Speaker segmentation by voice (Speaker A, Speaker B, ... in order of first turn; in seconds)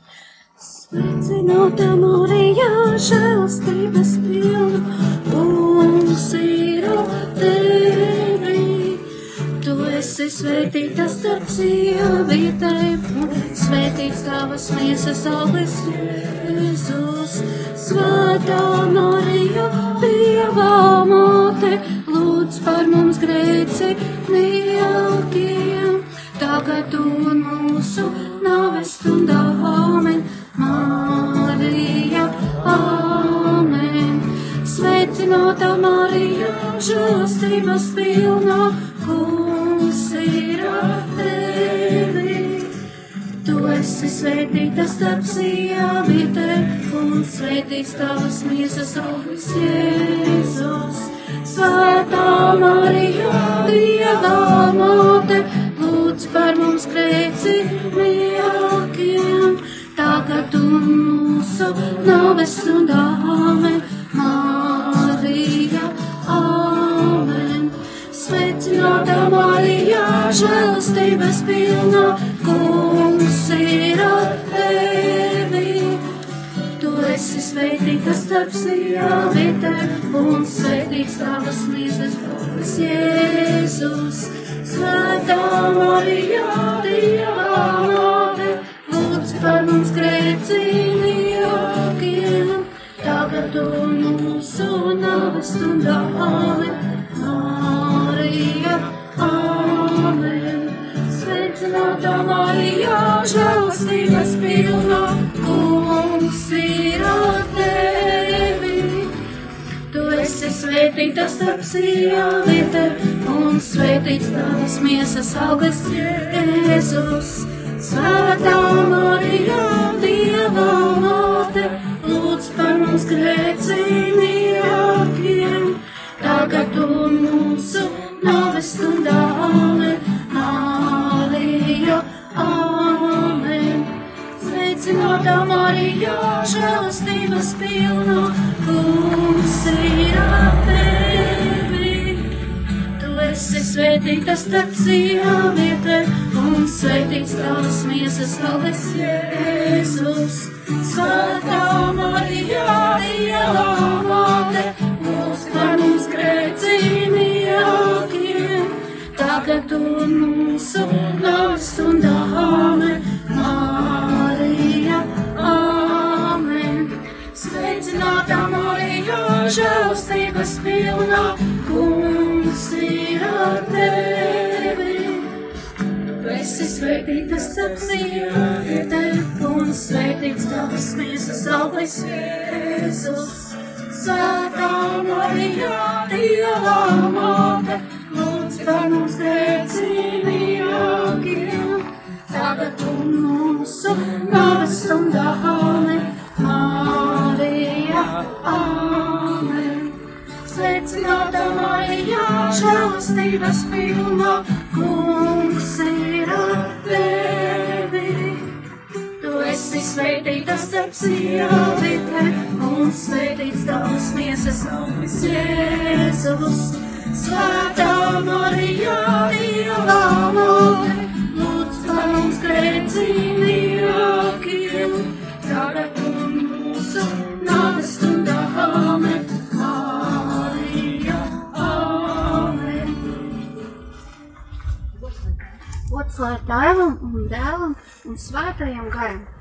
Speaker A: 0.6-9.1, 9.6-42.7, 43.4-76.1, 76.8-109.1, 109.9-142.4, 143.0-175.4, 176.2-208.5, 209.2-233.2, 235.9-239.3